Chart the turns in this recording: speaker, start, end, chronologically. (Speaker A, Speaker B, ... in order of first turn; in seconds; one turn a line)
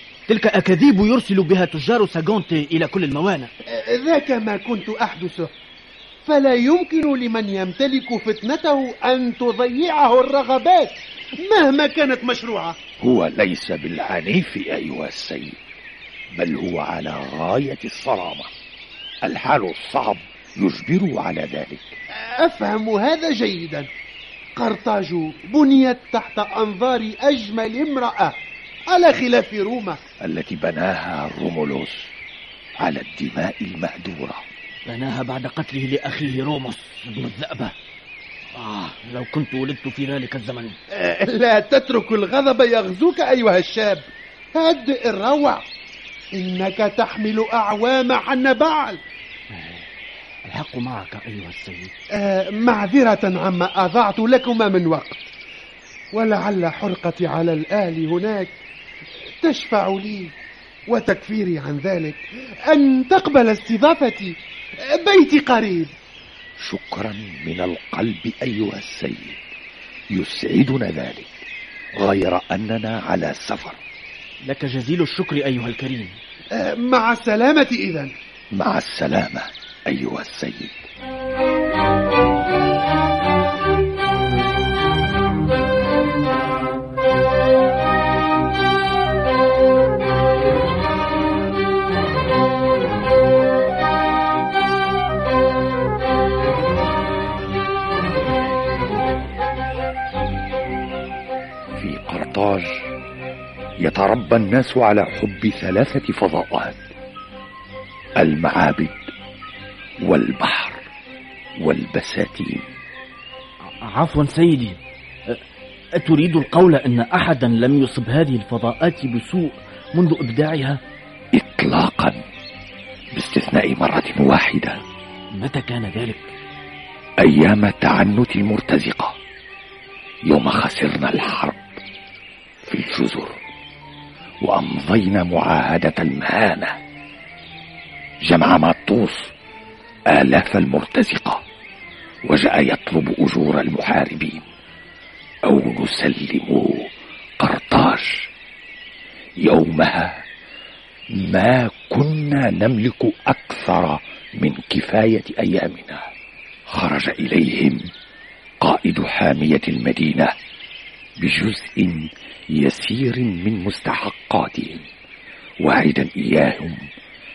Speaker A: 0.3-3.5
Speaker B: 3.8-5.5
Speaker B: 6.2-12.8
Speaker C: 13.0-15.6
Speaker C: 16.3-18.5
Speaker C: 19.2-21.9
Speaker B: 22.4-23.9
Speaker B: 24.6-28.3
Speaker B: 28.9-30.0
Speaker C: 30.2-32.1
Speaker C: 32.8-34.4
Speaker A: 34.9-37.7
Speaker A: 38.5-40.8
Speaker B: 41.0-45.6
Speaker B: 46.4-49.0
Speaker A: 49.5-49.8
Speaker A: 50.5-51.9
Speaker B: 52.2-55.2
Speaker B: 56.1-58.5
Speaker B: 59.4-60.3
Speaker B: 60.9-64.3
Speaker B: 65.0-65.9
Speaker C: 66.6-69.4
Speaker C: 70.1-71.4
Speaker C: 72.0-73.8
Speaker A: 74.4-76.2
Speaker B: 76.5-78.1
Speaker C: 78.5-80.8
Speaker C: 101.8-102.8
Speaker C: 103.8-106.8
Speaker C: 108.2-109.0
Speaker C: 110.0-110.8
Speaker C: 111.6-112.7
Speaker A: 113.8-115.4
Speaker A: 116.0-120.8
Speaker C: 121.3-122.2
Speaker C: 123.1-124.8
Speaker A: 125.3-126.3
Speaker C: 127.2-129.2
Speaker C: 130.3-131.6
Speaker C: 132.7-133.4
Speaker C: 134.4-136.8
Speaker C: 138.2-139.3
Speaker C: 140.1-141.4
Speaker C: 142.2-144.4
Speaker C: 145.4-148.3
Speaker C: 149.4-150.2
Speaker C: 151.1-156.1
Speaker C: 156.7-157.9
Speaker C: 158.6-160.3
Speaker C: 161.2-164.9
Speaker C: 165.6-166.9